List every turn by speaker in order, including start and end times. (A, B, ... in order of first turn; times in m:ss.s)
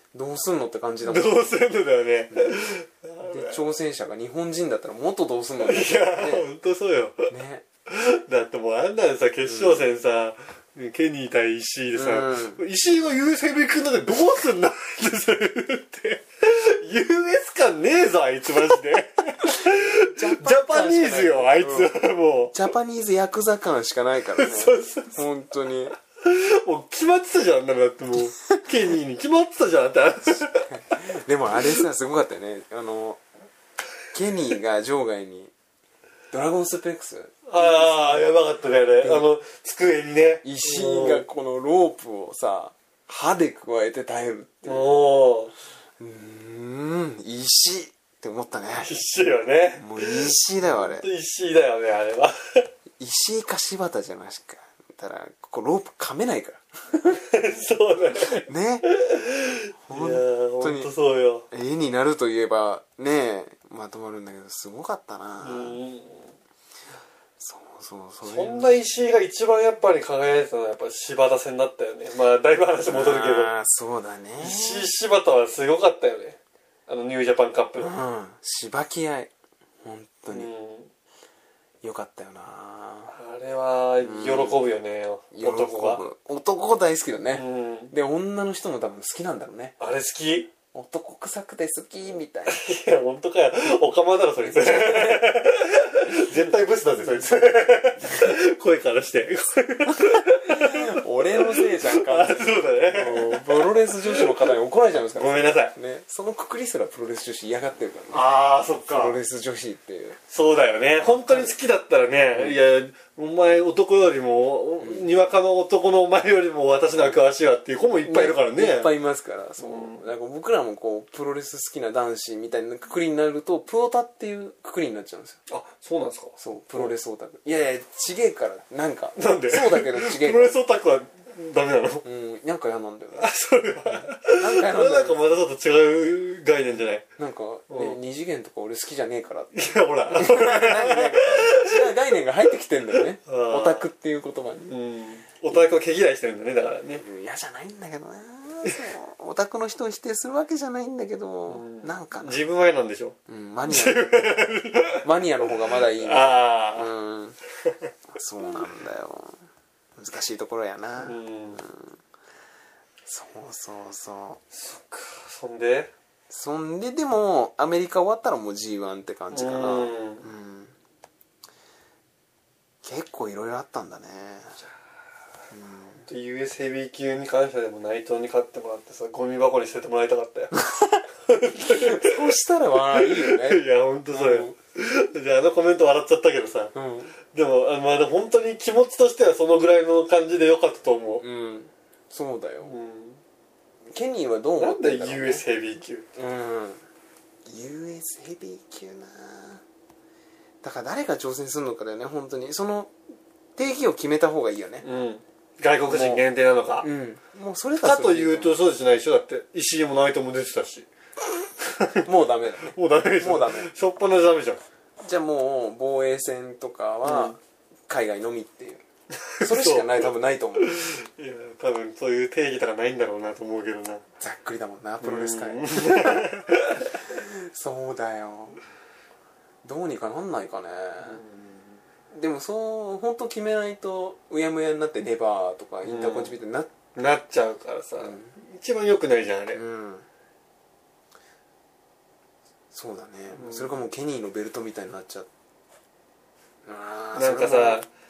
0:00.1-0:01.4 A
0:01.0-0:03.5 B
0:02.3-0:02.6 A
0:03.2-0:06.5 A
0:05.6-0:07.3 B
0:07.3-0:07.6 A
0:07.9-0:22.6 B
0:09.4-0:09.9 A
0:11.9-0:12.6 A
0:19.5-0:22.0 A
0:22.5-0:26.0 A
0:24.4-0:25.2 B
0:26.2-0:30.7 B
0:30.3-0:33.2 A
0:34.1-0:35.5 A
0:36.3-0:38.3 A
0:37.5-0:41.2 B
0:39.0-0:39.2 A
0:40.4-0:44.9 A
0:44.6-0:45.5 B
0:46.0-0:48.9 A
0:48.7-0:52.7 B
0:49.8-0:51.0 A
0:53.0-0:57.2 A
0:57.1-1:01.5 B
0:58.2-0:58.9 A
0:59.8-1:00.9 A
1:01.5-1:05.8 A
1:05.4-1:06.4 B
1:07.4-1:08.7 A
1:08.2-1:13.5 B
1:12.9-1:14.9 A
1:14.4-1:18.0 B
1:17.8-1:19.3 A
1:19.8-1:20.5 A
1:20.3-1:20.9 B
1:21.8-1:23.1 A
1:23.1-1:26.0 B
1:24.0-1:24.6 A
1:25.3-1:29.8 A
1:27.3-1:27.9 B
1:29.8-1:30.5 B
1:30.7-1:32.6 A
1:32.5-1:44.5 B
1:34.4-1:35.3 A
1:40.0-1:48.2 A
1:45.1-1:45.7 B
1:48.1-1:49.2 B
1:48.9-1:50.2 A
1:50.3-1:58.9 B
1:51.0-1:51.5 A
1:52.3-1:52.6 A
1:54.8-1:55.1 A
1:56.9-1:57.2 A
1:58.0-2:05.4 A
1:59.6-2:00.1 B
2:05.5-2:06.9 B
2:06.4-2:10.5 A
2:09.2-2:12.0 B
2:12.0-2:13.3 A
2:13.2-2:17.1 B
2:13.9-2:15.2 A
2:17.2-2:19.5 A
2:17.7-2:18.0 B
2:19.5-2:21.9 B
2:20.1-2:24.7 A
2:23.2-2:23.9 B
2:24.6-2:27.0 B
2:27.0-2:32.4 A
2:31.5-2:33.2 B
2:33.3-2:34.1 A
2:33.7-2:36.9 B
2:35.0-2:37.4 A
2:38.1-2:39.4 A
2:40.0-2:42.0 A
2:41.0-2:41.6 B
2:43.0-2:44.4 A
2:44.5-2:45.9 B
2:46.3-2:50.7 A
2:49.3-2:50.2 B
2:52.8-2:54.6 A
2:55.5-2:56.0 A
2:56.0-3:00.6 B
3:00.5-3:01.0 A
3:01.2-3:02.4 B
3:01.6-3:04.5 A
3:02.9-3:06.7 B
3:06.7-3:07.1 A
3:07.3-3:11.2 B
3:11.2-3:12.7 A
3:12.6-3:13.2 B
3:13.9-3:15.4 A
3:14.6-3:16.1 B
3:16.1-3:16.8 A
3:17.4-3:19.6 A
3:20.6-3:22.9 A
3:23.6-3:24.8 A
3:24.8-3:26.9 B
3:25.9-3:26.2 A
3:26.8-3:28.6 A
3:27.8-3:30.9 B
3:31.6-3:34.6 B
3:32.0-3:33.7 A
3:35.0-3:38.8 A
3:37.0-3:37.4 B
3:39.2-3:44.0 B
3:39.4-3:40.8 A
3:44.2-3:46.4 A
3:45.0-3:47.0 B
3:47.0-3:48.6 A
3:49.6-3:51.2 A
3:51.0-3:51.8 B
3:52.1-3:56.7 A
3:55.8-3:56.4 B
3:56.9-3:59.6 B
3:58.0-3:58.3 A
3:59.5-4:00.0 A
4:02.7-4:05.3 A
4:03.3-4:03.8 B
4:06.6-4:07.8 A
4:07.1-4:07.9 B